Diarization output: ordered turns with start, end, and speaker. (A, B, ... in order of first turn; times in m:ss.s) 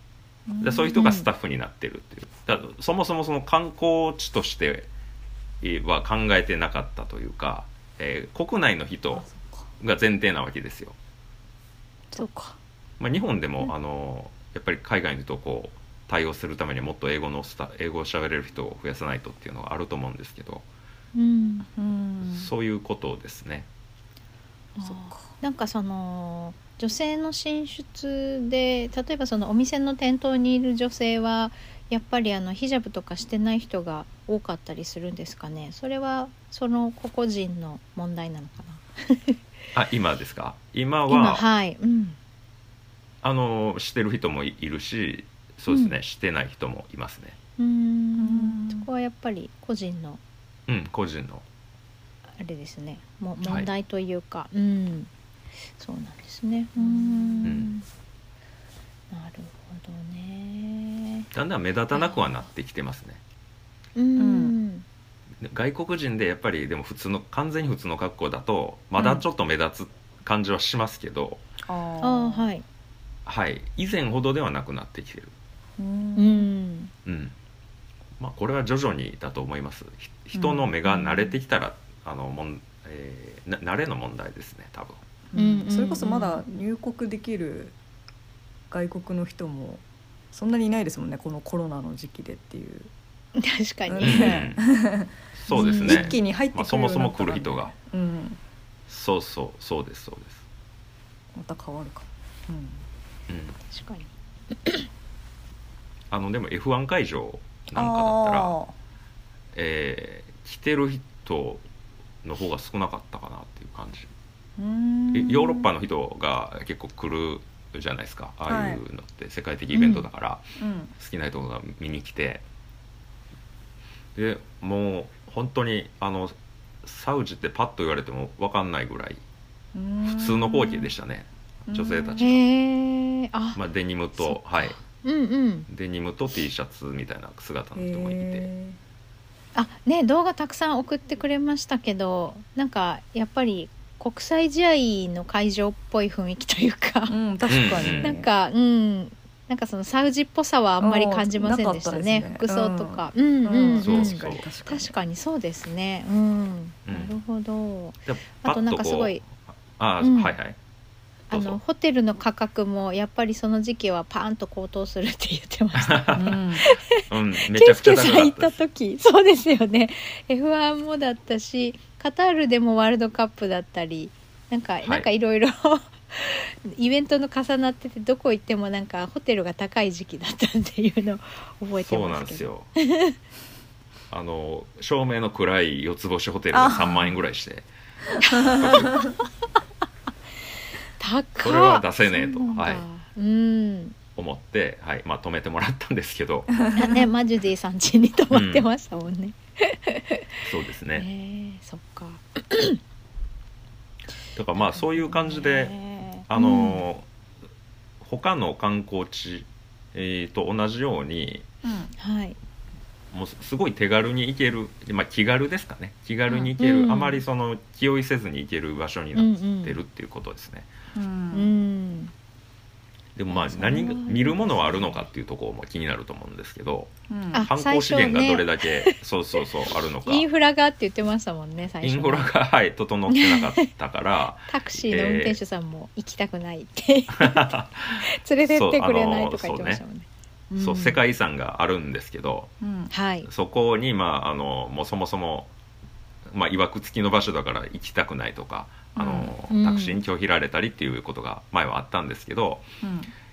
0:00.5-0:01.1 A
0:00.6-0:04.9 B
0:00.9-0:01.3 C
0:05.6-0:09.3 B
0:09.1-0:09.7 A
0:09.8-0:11.0 B
0:12.1-0:12.6 C
0:13.0-0:20.6 B
0:21.1-0:21.7 C
0:21.8-0:22.5 A
0:22.2-0:23.7 B
0:24.8-0:39.4 C
0:24.8-0:25.3 A
0:39.7-0:41.4 B
0:41.1-0:42.2 C
0:43.2-0:47.4 B
0:45.7-0:46.0 C
0:47.6-0:50.2 C
0:48.2-0:48.9 A
0:50.7-0:51.4 B
0:52.4-0:55.1 C
0:55.8-0:57.8 C
0:56.8-0:57.7 A
0:57.4-0:57.7 B
0:59.1-1:01.3 C
1:01.3-1:03.2 B
1:02.0-1:02.2 C
1:04.0-1:04.8 C
1:04.2-1:04.6 A
1:05.4-1:11.4 B
1:09.0-1:09.2 A
1:11.6-1:12.5 A
1:12.0-1:12.6 C
1:13.3-1:15.3 B
1:15.8-1:16.5 A
1:16.2-1:16.9 C
1:17.0-1:17.4 B
1:18.2-1:25.0 B
1:20.3-1:21.4 A
1:25.3-1:27.8 A
1:25.4-1:26.4 C
1:28.7-1:32.9 A
1:33.4-1:34.5 C
1:33.9-1:38.4 A
1:34.0-1:34.6 B
1:35.4-1:37.7 B
1:35.5-1:36.2 C
1:38.9-1:40.4 B
1:41.3-1:42.8 A
1:43.3-1:43.6 B
1:43.7-1:44.1 C
1:46.1-1:48.6 B
1:47.7-1:48.7 A
1:49.5-1:51.6 B
1:52.2-1:54.1 B
1:54.6-1:55.7 A
1:55.1-2:00.4 B
1:58.5-1:58.8 A
1:59.7-2:00.0 C
2:00.6-2:00.9 A
2:01.0-2:02.4 B
2:04.2-2:09.2 B
2:09.7-2:10.9 A
2:10.1-2:12.4 B
2:11.7-2:12.4 A
2:12.2-2:13.6 C
2:13.6-2:14.8 B
2:14.2-2:15.7 C
2:15.7-2:18.5 B
2:17.8-2:18.8 A
2:19.6-2:27.2 C
2:27.1-2:28.3 A
2:27.5-2:28.2 B
2:27.9-2:39.2 C
2:30.8-2:34.9 A
2:33.8-2:34.5 B
2:36.9-2:37.2 B
2:38.1-2:40.6 B
2:40.0-2:40.4 C
2:41.3-2:41.6 B
2:41.3-3:03.2 C
2:45.8-2:46.4 B
2:46.2-2:46.7 A
2:47.0-2:48.6 B
3:01.8-3:02.7 B
3:04.1-3:07.7 B
3:06.5-3:07.2 A
3:08.3-3:09.1 A
3:08.4-3:09.0 B
3:11.0-3:14.0 C
3:11.4-3:12.8 B
3:14.2-3:16.5 B
3:16.7-3:20.3 C
3:18.3-3:18.7 B
3:20.4-3:21.1 B
3:20.9-3:22.8 C
3:24.4-3:25.8 B
3:24.6-3:26.8 C
3:26.3-3:27.1 B
3:28.0-3:31.5 B
3:31.6-3:31.9 A
3:32.0-3:32.4 C
3:33.1-3:40.7 B
3:36.6-3:37.2 C
3:39.2-3:39.8 C
3:41.0-3:41.5 A
3:41.3-3:42.1 C
3:43.2-3:46.9 B
3:43.3-3:45.0 C
3:47.1-3:47.5 A
3:47.3-3:48.9 C
3:47.4-3:50.3 B
3:50.0-3:52.3 C
3:51.8-3:55.4 B
3:53.1-3:53.7 C
3:54.5-4:01.0 C
3:57.1-3:59.8 B
4:00.6-4:02.5 B
4:02.6-4:02.9 A
4:02.9-4:03.3 C
4:03.3-4:05.5 B
4:06.3-4:12.6 B
4:09.0-4:10.0 C
4:12.8-4:13.1 A